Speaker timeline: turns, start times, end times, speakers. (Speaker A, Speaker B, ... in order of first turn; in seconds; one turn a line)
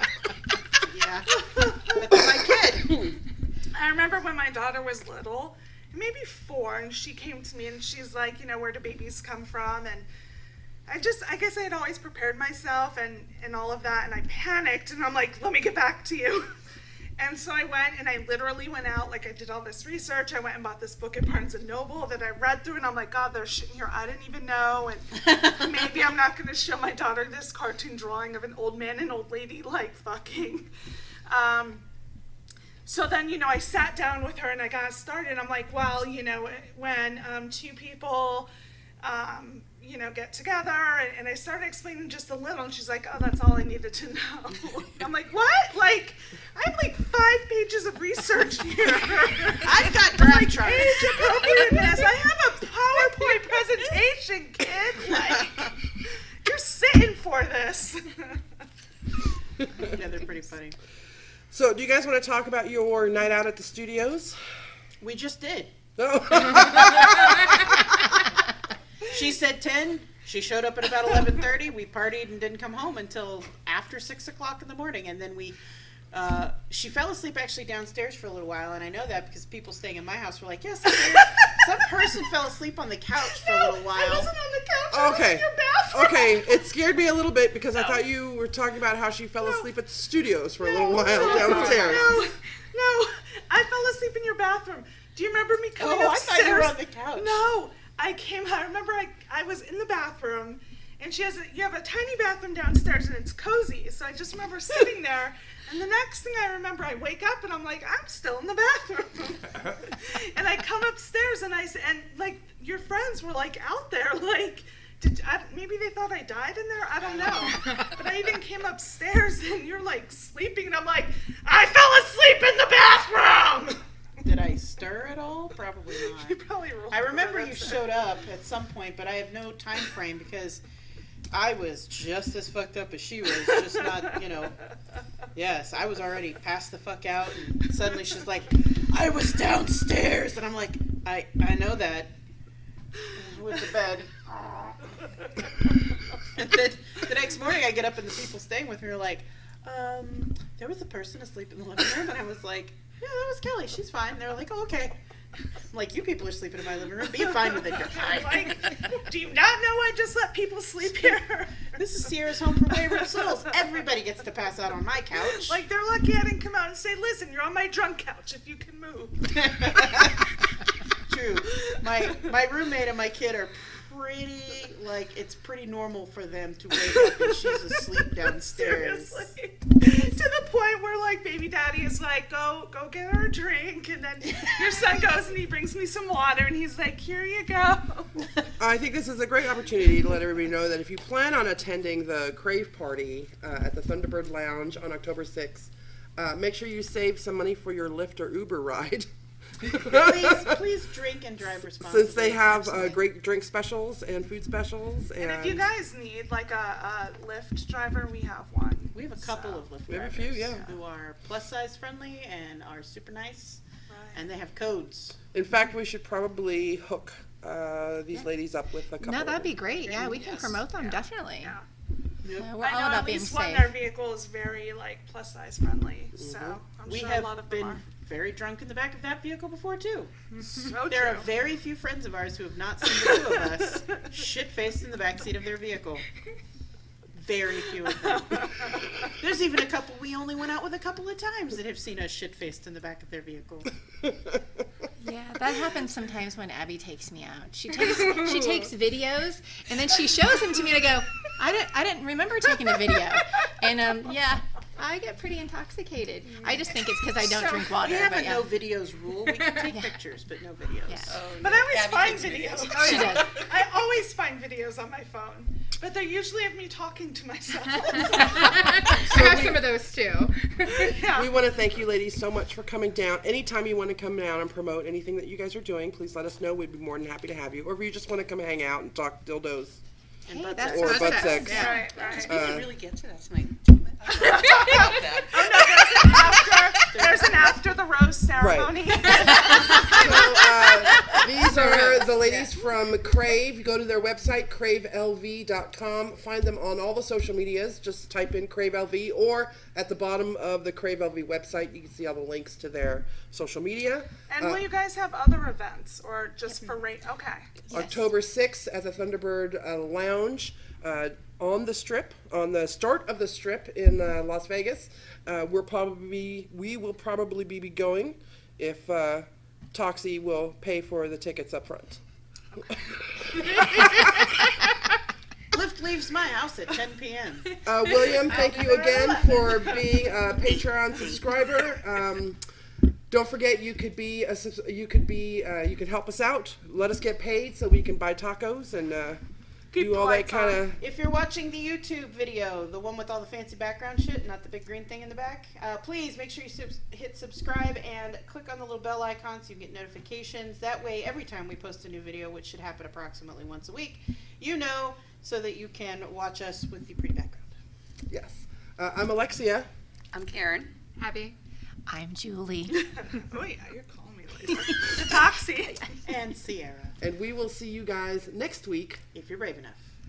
Speaker A: 0.8-3.1
Speaker B: 3.7-10.1
Speaker B: 10.9-16.5
Speaker B: 17.2-30.7
Speaker A: 25.2-25.7
Speaker B: 31.3-31.8
Speaker B: 32.9-38.5
Speaker B: 39.0-58.4
Speaker A: 49.6-52.0
Speaker A: 53.0-54.0
Speaker A: 55.0-55.7
Speaker A: 59.7-60.8
Speaker C: 61.5-64.4
Speaker A: 65.0-65.7
Speaker C: 66.0-67.8
Speaker A: 66.8-67.1
Speaker A: 69.0-75.6
Speaker A: 76.1-84.3
Speaker B: 81.0-81.5
Speaker B: 83.2-86.6
Speaker C: 84.9-92.2
Speaker B: 87.7-88.0
Speaker B: 89.4-89.7
Speaker B: 90.6-123.8
Speaker A: 90.9-92.2
Speaker A: 95.8-97.4
Speaker A: 117.0-117.8
Speaker A: 124.2-130.6
Speaker B: 126.1-128.0
Speaker A: 131.3-134.6
Speaker A: 135.3-142.1
Speaker A: 143.1-145.1
Speaker A: 146.3-154.9
Speaker A: 155.7-158.8
Speaker B: 157.4-162.1
Speaker A: 161.7-165.6
Speaker B: 162.9-163.3
Speaker B: 165.4-170.1
Speaker A: 169.3-170.3
Speaker A: 171.1-179.3
Speaker B: 176.9-177.7
Speaker B: 178.3-188.3
Speaker C: 188.6-200.6
Speaker A: 199.7-203.0
Speaker C: 201.8-205.7
Speaker B: 205.2-209.6
Speaker A: 208.9-213.6
Speaker C: 209.9-210.7
Speaker B: 213.9-214.2
Speaker A: 214.1-215.2
Speaker C: 215.3-219.6
Speaker D: 219.0-221.6
Speaker A: 219.8-220.6
Speaker B: 220.8-221.6
Speaker A: 222.2-222.5
Speaker D: 222.3-223.7
Speaker B: 222.6-227.8
Speaker C: 226.2-226.6
Speaker A: 226.9-230.3
Speaker B: 230.5-231.3
Speaker A: 230.9-236.1
Speaker B: 233.0-234.0
Speaker A: 237.1-238.6
Speaker B: 238.0-239.1
Speaker A: 239.2-243.8
Speaker C: 244.0-244.4
Speaker D: 245.0-258.5
Speaker B: 257.2-257.7
Speaker A: 257.8-261.2
Speaker D: 259.7-259.9
Speaker D: 260.9-261.1
Speaker E: 261.1-263.7
Speaker B: 261.4-268.9
Speaker D: 262.7-263.4
Speaker F: 268.3-270.9
Speaker C: 269.0-269.7
Speaker B: 270.8-271.3
Speaker C: 271.1-279.8
Speaker A: 280.3-282.4
Speaker D: 280.3-281.9
Speaker C: 280.6-282.7
Speaker F: 280.6-281.9
Speaker B: 281.5-282.3
Speaker E: 281.6-286.6
Speaker B: 284.1-290.3
Speaker A: 286.9-287.6
Speaker C: 288.4-289.2
Speaker C: 289.9-304.6
Speaker E: 292.1-292.5
Speaker B: 304.3-307.5
Speaker C: 307.7-322.0
Speaker C: 322.6-324.1
Speaker A: 325.5-329.8
Speaker C: 327.6-332.4
Speaker E: 328.2-329.2
Speaker C: 333.1-339.2
Speaker B: 339.7-340.6
Speaker C: 339.7-340.8
Speaker A: 340.8-357.5
Speaker C: 358.1-359.7
Speaker E: 360.1-360.7
Speaker F: 361.0-361.4
Speaker D: 361.9-362.8
Speaker B: 362.8-366.0
Speaker A: 366.1-367.0
Speaker C: 367.0-369.0
Speaker A: 369.1-369.8